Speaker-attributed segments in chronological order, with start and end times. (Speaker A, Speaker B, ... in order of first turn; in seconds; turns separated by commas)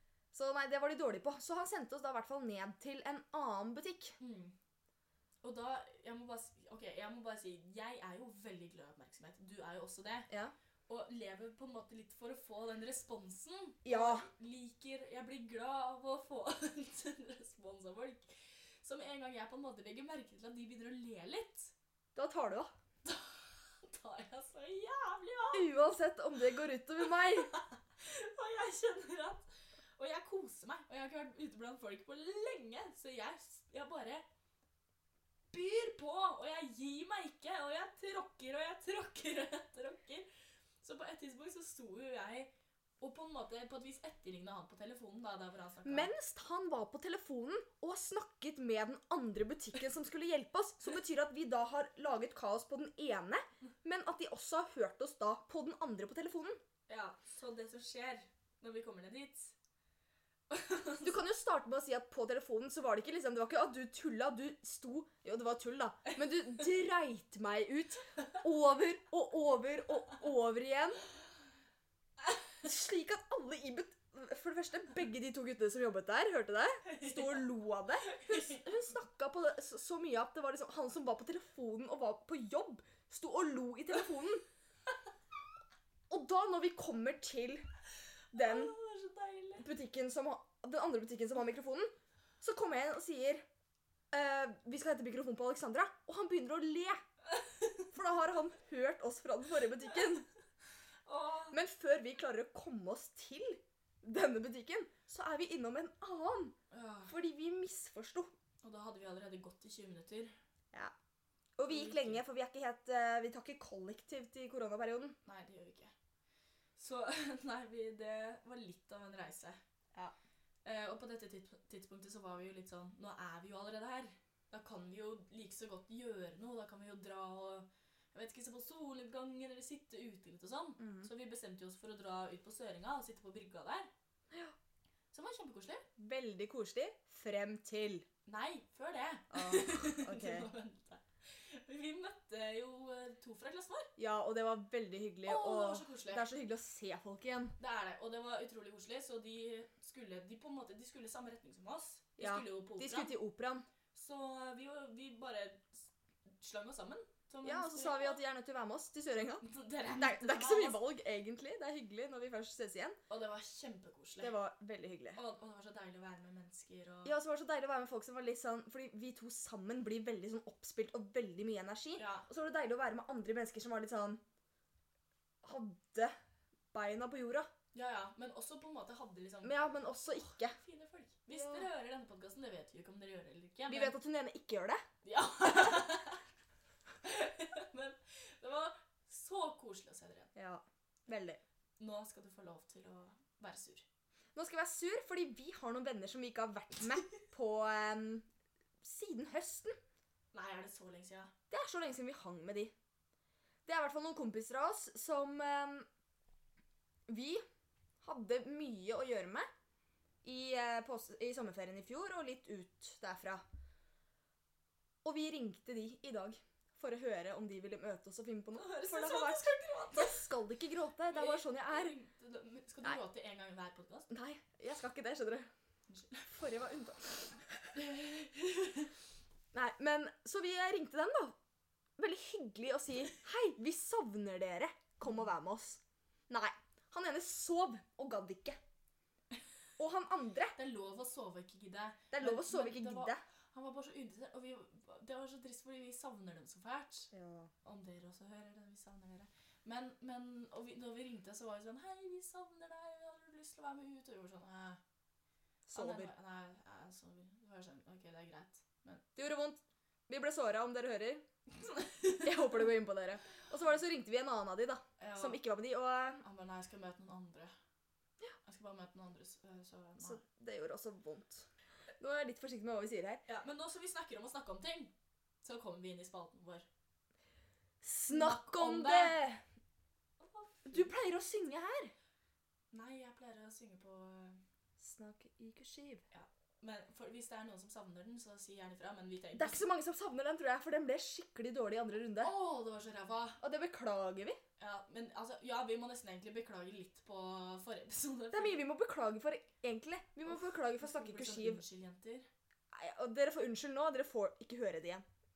Speaker A: 0.3-4.2, Speaker B: 4.2-4.5, Speaker B: 5.4-10.3, Speaker B: 10.9-21.7, Speaker A: 13.8-14.3, Speaker A: 22.1-22.7, Speaker B: 23.0-25.7, Speaker A: 25.5-27.5, Speaker B: 27.1-34.2, Speaker B: 35.5-40.3, Speaker B: 40.8-46.1, Speaker A: 45.8-56.6, Speaker B: 56.9-59.5, Speaker B: 60.5-61.1, Speaker A: 61.0-71.0, Speaker A: 72.6-84.4, Speaker B: 76.8-77.4, Speaker B: 78.1-78.7, Speaker A: 86.1-87.7, Speaker A: 88.3-88.7, Speaker B: 88.3-89.7, Speaker A: 89.6-93.4, Speaker A: 94.1-97.0, Speaker A: 97.9-100.3, Speaker B: 101.0-101.5, Speaker A: 101.5-106.5, Speaker B: 106.7-107.1, Speaker A: 107.1-108.3, Speaker B: 108.6-110.3, Speaker A: 111.6-115.2, Speaker B: 111.7-112.2, Speaker B: 115.2-115.9, Speaker B: 116.8-119.6, Speaker B: 120.6-133.9, Speaker A: 130.8-131.1, Speaker B: 135.1-135.8, Speaker A: 136.0-138.1, Speaker B: 138.3-143.9, Speaker A: 139.3-140.5, Speaker A: 144.0-147.5, Speaker B: 145.2-146.3, Speaker B: 147.6-153.1, Speaker A: 152.2-153.6, Speaker B: 153.9-158.2, Speaker A: 157.4-159.4, Speaker B: 159.4-160.8, Speaker A: 159.9-163.0, Speaker B: 163.1-164.3, Speaker A: 164.2-165.2, Speaker B: 165.1-167.2, Speaker A: 167.0-174.2, Speaker B: 172.0-172.2, Speaker A: 175.4-176.1, Speaker A: 176.7-177.5, Speaker B: 177.7-179.6, Speaker A: 179.4-180.6, Speaker B: 180.1-183.9, Speaker A: 181.3-181.7, Speaker A: 183.7-184.8, Speaker B: 185.0-186.2, Speaker B: 187.0-190.3, Speaker A: 190.3-191.4, Speaker B: 191.8-193.8, Speaker A: 194.3-198.2, Speaker A: 198.8-199.8, Speaker B: 200.3-201.3, Speaker A: 201.5-202.7, Speaker A: 203.7-205.9, Speaker A: 207.1-207.4, Speaker A: 208.0-209.5, Speaker A: 210.2-213.4, Speaker A: 215.0-221.9, Speaker B: 218.5-220.3, Speaker B: 221.1-224.1, Speaker A: 224.1-225.5, Speaker B: 225.9-226.3, Speaker A: 226.3-227.4, Speaker B: 227.7-228.9, Speaker A: 229.5-231.3, Speaker A: 232.0-238.6, Speaker A: 239.8-240.5, Speaker B: 240.5-247.1, Speaker A: 242.1-243.2, Speaker A: 247.1-247.5, Speaker B: 247.6-254.8, Speaker A: 255.7-256.1, Speaker B: 255.7-259.0, Speaker A: 259.1-261.2, Speaker B: 261.6-262.3, Speaker A: 262.2-266.2, Speaker B: 265.0-265.4, Speaker B: 266.2-267.5, Speaker B: 268.4-270.2, Speaker A: 270.0-273.2, Speaker B: 273.2-276.6, Speaker A: 277.8-279.4, Speaker B: 278.1-279.2, Speaker B: 280.2-280.9, Speaker A: 280.7-281.9, Speaker B: 282.7-284.4, Speaker A: 284.8-286.0, Speaker B: 286.1-289.6, Speaker A: 289.3-292.3, Speaker B: 292.2-293.4, Speaker A: 293.4-294.4, Speaker B: 294.6-298.6, Speaker A: 298.3-301.6, Speaker B: 300.3-302.3, Speaker A: 302.7-305.0